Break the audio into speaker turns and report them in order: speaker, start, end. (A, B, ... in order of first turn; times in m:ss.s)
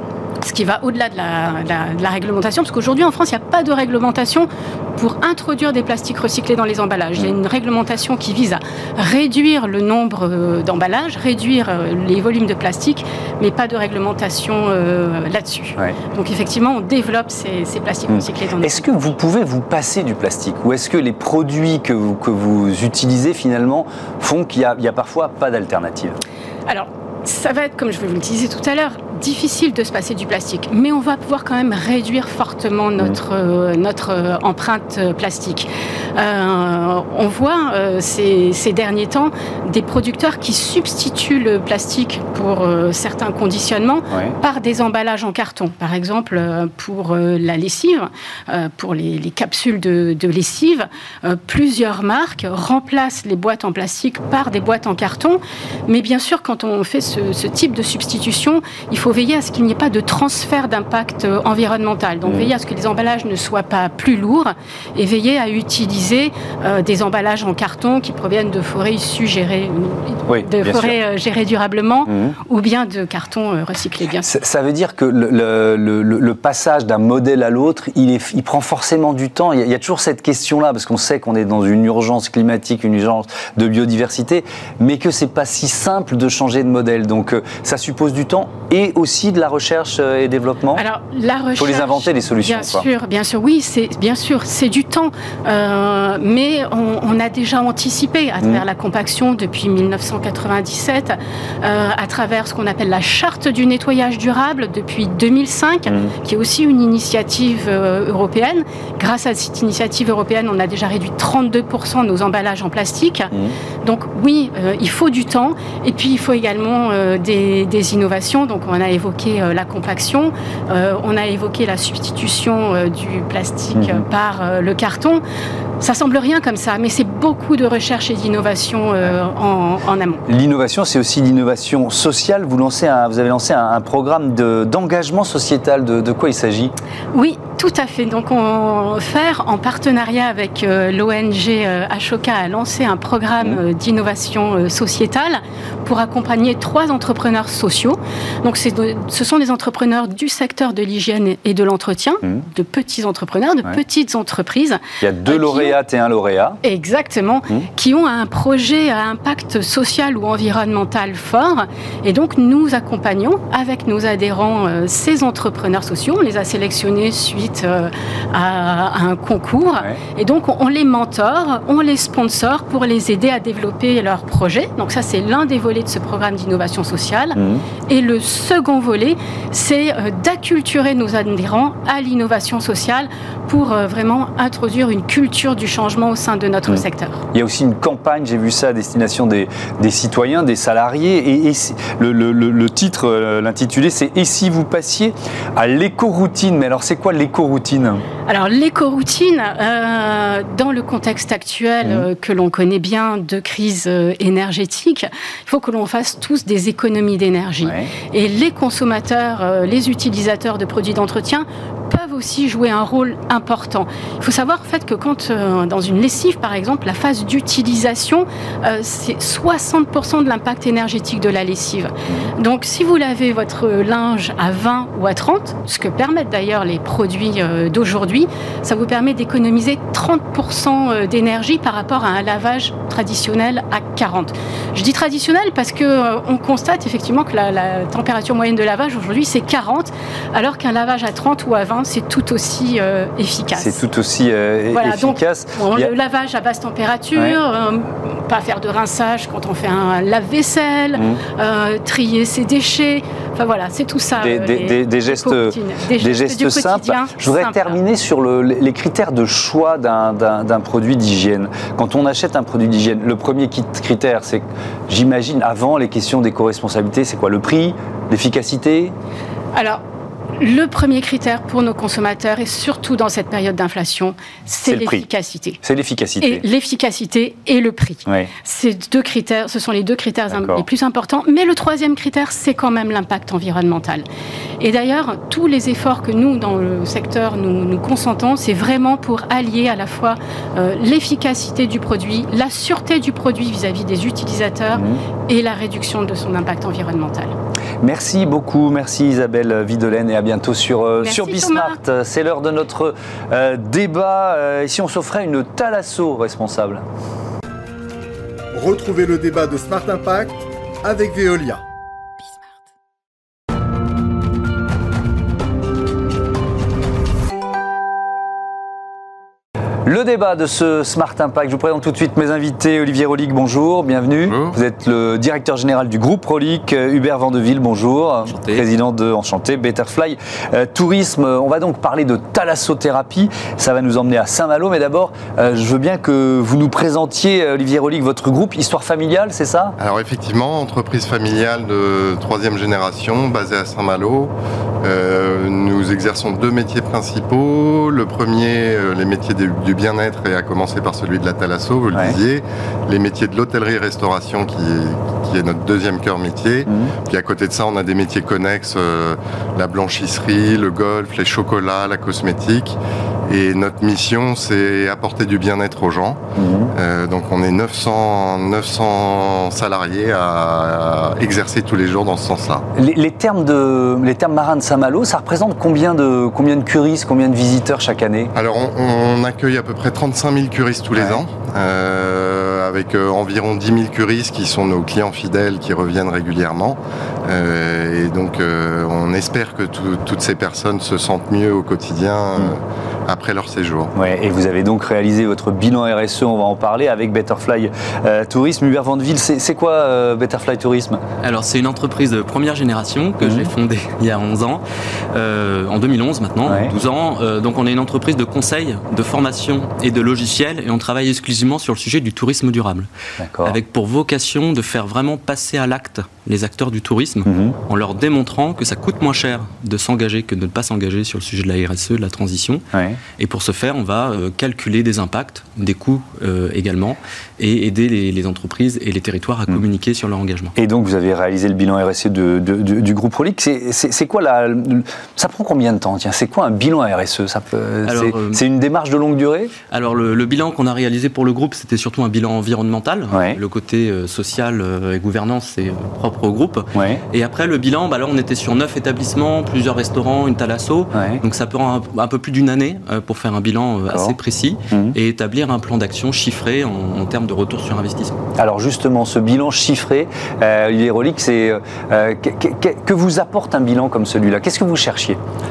0:00.4-0:18.9 A
0:18.1-0:26.2 B
0:26.7-1:14.3 A
0:44.1-0:44.4 B
1:02.2-1:02.5 B
1:10.3-1:11.0 B
1:12.0-1:12.4 B
1:14.2-1:30.8 B
1:30.7-1:53.3 A
1:31.6-1:32.8 B
1:45.9-1:46.1 B
1:53.8-2:05.2 A
2:03.8-2:04.0 B
2:05.8-2:10.2 A
2:10.3-2:16.7 B
2:17.1-2:35.8 A
2:35.0-2:36.6 B
2:36.6-3:07.2 A
2:57.4-2:57.6 B
3:07.3-3:18.0 B
3:18.3-4:03.8 A
3:27.6-3:27.9 B
4:03.6-4:05.9 B
4:04.7-4:17.8 A
4:10.9-4:11.2 B
4:14.2-4:28.9 B
4:29.5-4:29.8 A
4:30.4-4:35.6 A
4:34.7-4:35.1 B
4:35.6-4:36.4 B
4:36.2-4:44.0 A
4:38.0-4:38.3 B
4:40.3-4:40.6 B
4:44.6-4:57.3 A
4:54.7-4:55.0 B
4:57.8-5:06.8 B
5:01.0-5:01.8 A
5:08.5-5:11.6 C
5:19.8-5:39.8 B
5:24.2-5:24.6 D
5:28.2-5:28.6 E
5:39.8-6:12.6 D
5:56.7-5:56.9 B
6:06.4-6:06.7 B
6:12.7-6:18.3 B
6:18.3-6:33.9 D
6:33.9-6:41.0 B
6:41.2-6:52.9 E
6:43.2-6:43.5 B
6:46.4-6:46.7 B
6:53.2-6:53.6 B
6:53.4-7:02.6 E
6:57.2-6:57.6 B
7:02.7-7:03.0 B
7:03.2-7:10.5 E
7:10.6-7:19.5 B
7:17.8-7:18.4 E
7:19.7-7:38.1 E
7:23.1-7:23.4 B
7:26.7-7:27.0 B
7:30.9-7:31.2 B
7:33.9-7:34.2 B
7:34.7-7:35.0 B
7:38.4-7:45.2 B